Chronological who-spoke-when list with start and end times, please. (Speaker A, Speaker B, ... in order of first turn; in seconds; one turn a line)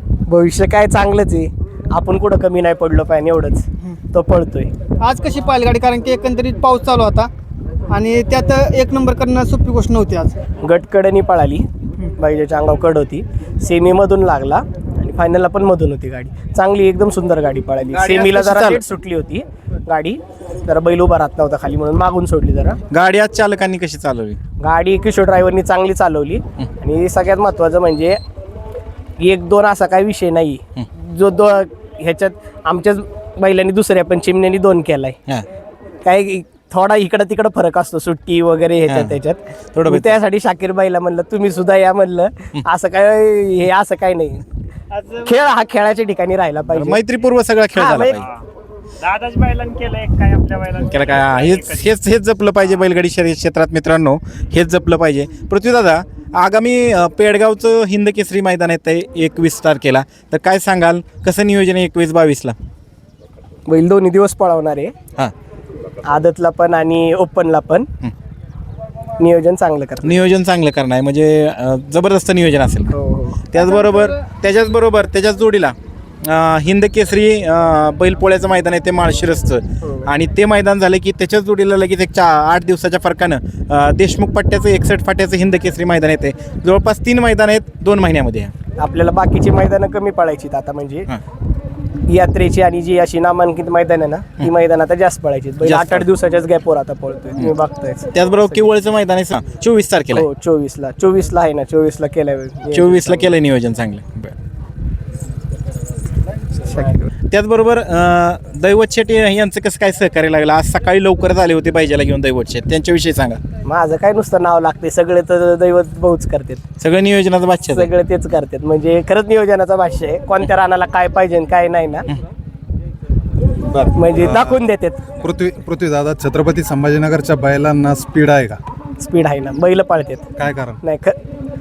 Speaker A: 0.3-4.7
Speaker B: 5.0-7.3
Speaker B: 7.9-10.4
Speaker A: 10.6-11.7
Speaker A: 12.2-22.8
Speaker C: 17.9-18.8
Speaker C: 22.9-24.4
Speaker A: 24.6-28.2
Speaker A: 29.2-35.1
Speaker A: 36.0-44.4
Speaker C: 38.9-39.1
Speaker C: 39.7-40.2
Speaker D: 44.9-45.2
Speaker A: 45.2-47.0
Speaker C: 46.7-48.3
Speaker A: 47.7-48.2
Speaker D: 48.1-48.4
Speaker D: 49.0-51.9
Speaker C: 50.8-62.5
Speaker A: 63.7-64.9
Speaker A: 66.0-67.9
Speaker A: 69.2-70.2
Speaker C: 70.0-72.9
Speaker A: 72.9-73.4
Speaker C: 73.5-88.5
Speaker A: 88.8-91.1
Speaker A: 92.1-98.7
Speaker C: 95.6-96.1
Speaker C: 98.1-100.2
Speaker A: 100.1-103.3
Speaker C: 102.7-104.3
Speaker A: 106.6-107.1
Speaker C: 107.3-113.4
Speaker A: 113.6-116.6
Speaker C: 116.8-117.9
Speaker A: 117.7-122.1
Speaker A: 123.9-125.0
Speaker E: 124.2-124.6
Speaker E: 125.2-128.6
Speaker A: 129.0-130.3
Speaker E: 130.4-130.8
Speaker A: 130.8-131.2